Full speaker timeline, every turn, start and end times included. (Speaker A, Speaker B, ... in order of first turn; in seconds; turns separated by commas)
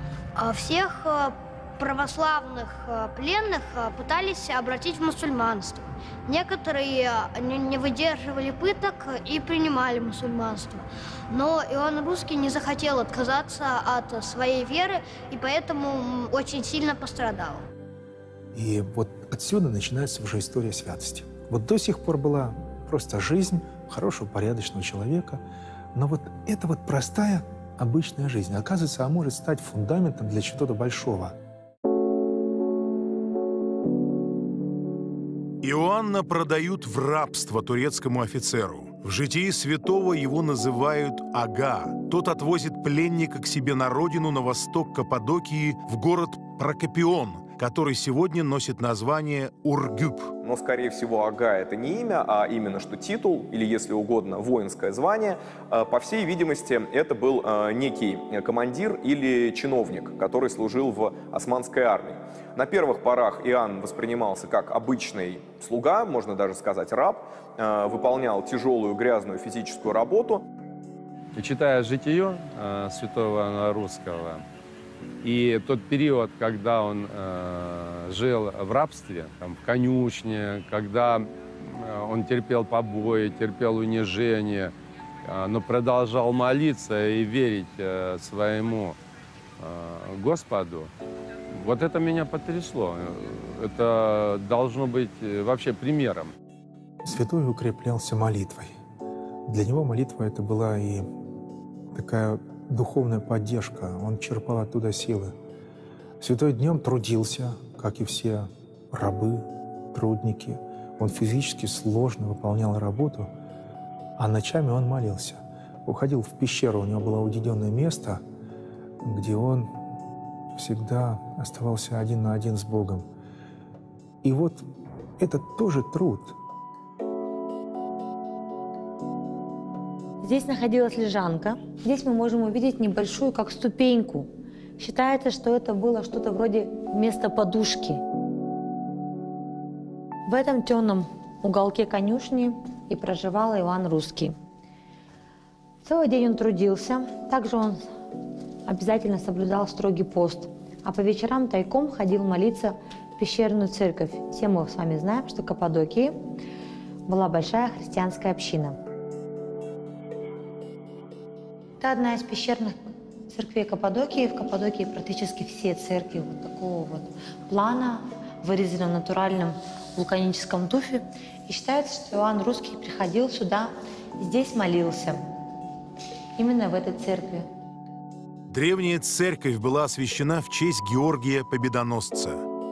Speaker A: 0.4-17.6, Speaker B: 18.5-25.4, Speaker B: 25.9-31.4, Speaker C: 35.6-50.3, Speaker D: 50.4-70.4, Speaker E: 71.3-74.4, Speaker E: 75.2-84.7, Speaker E: 85.2-89.0, Speaker E: 89.6-90.9, Speaker E: 91.5-96.3, Speaker B: 97.0-98.7, Speaker B: 99.5-101.1, Speaker B: 101.9-105.3, Speaker B: 106.2-113.3, Speaker B: 114.2-118.2, Speaker B: 119.0-119.7, Speaker B: 120.5-123.0, Speaker B: 124.2-124.6, Speaker B: 125.2-126.3, Speaker F: 130.2-138.0, Speaker F: 140.3-144.3, Speaker F: 145.8-147.9, Speaker F: 148.7-156.2, Speaker F: 157.1-158.8, Speaker F: 161.8-162.8, Speaker F: 163.3-175.2, Speaker F: 176.4-177.5, Speaker C: 178.5-182.4